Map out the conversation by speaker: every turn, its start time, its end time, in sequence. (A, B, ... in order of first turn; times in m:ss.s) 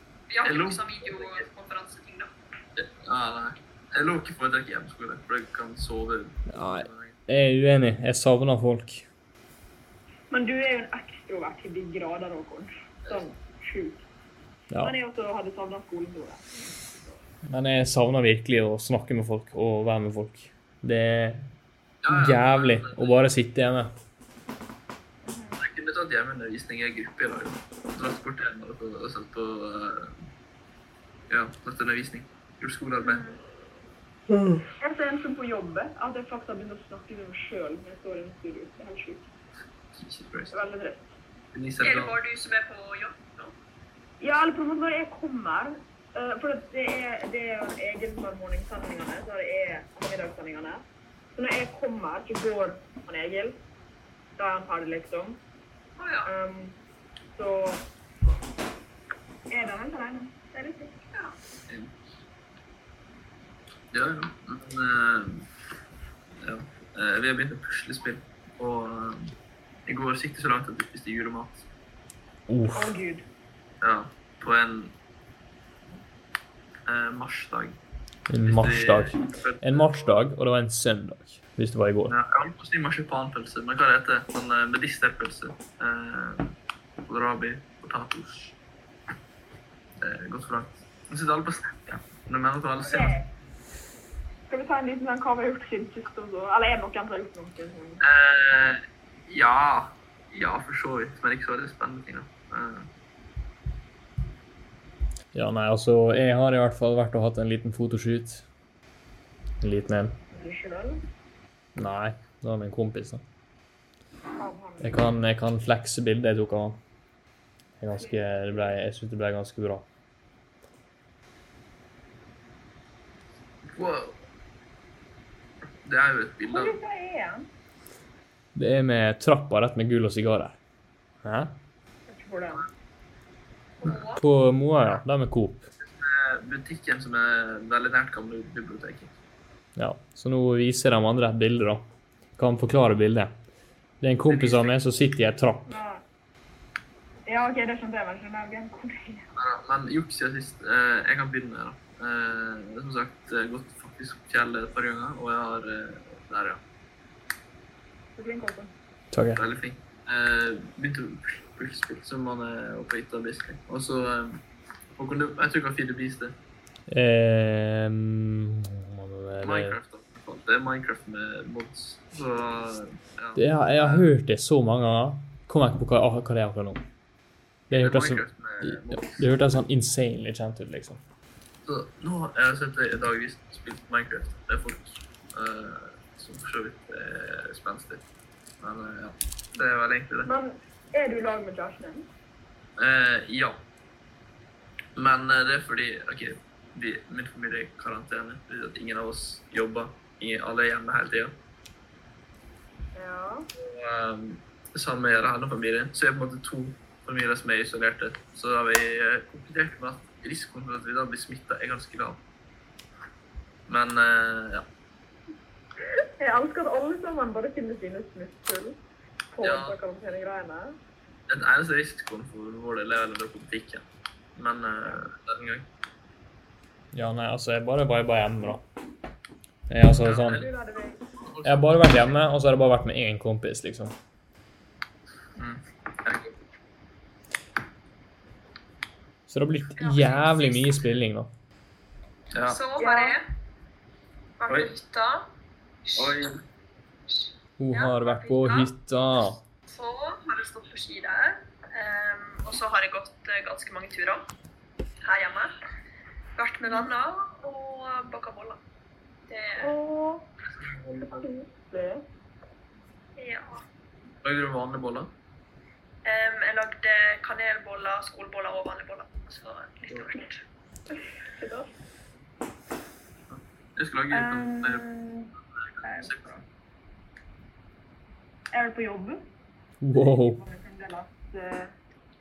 0:00.3-0:02.3 A
0:00.4-0:01.4 B
0:02.8-0:07.2 B
0:06.5-0:09.0 C
0:10.3-0:14.0 D
0:14.8-0:17.2 D
0:17.5-0:21.5 C
0:22.0-0:23.1 B
0:22.1-0:23.9 C
0:25.2-0:25.6 D
0:25.6-0:30.2 B
0:31.3-0:33.2 B
0:33.0-0:33.4 A
0:34.8-0:39.3 D
0:40.0-0:40.6 B
0:40.5-0:41.1 D
0:41.5-0:42.2 B
0:41.8-0:43.6 A
0:44.2-0:50.8 D
0:51.4-0:53.6 D
0:54.4-0:55.4 D
0:56.0-0:56.3 A
0:56.3-0:56.8 D
0:57.4-0:57.8 D
0:59.5-1:01.0 D
1:03.9-1:05.5 B
1:06.4-1:09.3 B
1:09.9-1:11.7 B
1:12.5-1:12.9 C
1:12.7-1:13.2 D
1:13.8-1:14.9 B
1:16.9-1:17.8 B
1:18.3-1:22.2 C
1:18.5-1:20.2 B
1:22.1-1:26.5 B
1:27.1-1:28.6 B
1:30.0-1:33.2 B
1:32.8-1:33.3 D
1:34.5-1:38.1 D
1:38.0-1:42.9 B
1:45.3-1:48.4 C
1:49.6-1:50.2 C
1:50.3-1:51.0 D
1:51.8-1:53.2 C
1:54.4-1:55.0 D
1:54.8-1:56.8 C
1:57.8-1:59.9 C
1:58.0-1:58.7 D
2:03.7-2:04.2 B
2:05.8-2:06.8 B
2:06.5-2:07.5 D
2:08.6-2:10.6 C
2:11.2-2:11.6 C
2:12.1-2:12.7 D
2:13.8-2:14.2 A
2:14.2-2:15.7 C
2:15.8-2:19.1 B
2:19.8-2:23.3 C
2:24.0-2:25.7 C
2:24.3-2:24.8 B
2:25.7-2:26.0 D
2:27.3-2:29.3 D
2:29.4-2:36.6 B
2:38.2-2:38.7 D
2:39.1-2:39.4 C
2:39.4-2:44.4 B
2:45.0-2:46.4 B
2:46.9-2:49.8 C
2:49.4-2:54.1 B
2:53.4-2:56.8 C
2:57.7-3:01.0 C
2:57.7-2:59.3 B
3:01.6-3:08.0 B
3:08.6-3:10.3 B
3:10.2-3:12.1 D
3:12.8-3:13.6 B
3:15.0-3:21.3 B
3:23.0-3:23.5 D
3:23.6-3:32.2 B
3:33.7-3:34.6 B
3:36.2-3:38.8 D
3:39.3-3:40.8 D
3:39.4-3:39.8 B
3:41.3-3:43.8 B
3:44.4-3:45.7 B
3:46.9-3:48.6 C
3:49.7-3:50.5 C
3:50.0-3:50.5 B
3:50.2-3:51.0 D
3:51.2-3:52.1 B
3:51.4-3:53.9 C
3:55.4-3:56.3 B
3:59.3-4:01.3 C
3:59.8-4:00.8 A
4:02.3-4:02.6 B
4:02.4-4:03.2 A
4:02.8-4:03.2 D
4:04.4-4:05.3 A
4:05.9-4:06.1 A
4:06.0-4:06.4 B
4:07.1-4:08.7 A
4:07.6-4:09.4 C
4:09.7-4:14.3 A
4:15.0-4:15.5 A
4:16.4-4:18.6 A
4:16.6-4:16.9 D
4:19.3-4:19.8 A
4:19.6-4:20.3 D
4:20.5-4:21.3 B
4:21.0-4:22.0 D
4:23.2-4:23.6 A
4:24.2-4:25.1 B
4:26.0-4:30.4 A
4:31.2-4:31.7 D
4:33.3-4:34.9 B
4:34.1-4:36.2 D
4:35.6-4:36.4 B
4:38.5-4:39.2 D
4:39.8-4:40.4 C
4:39.9-4:41.7 D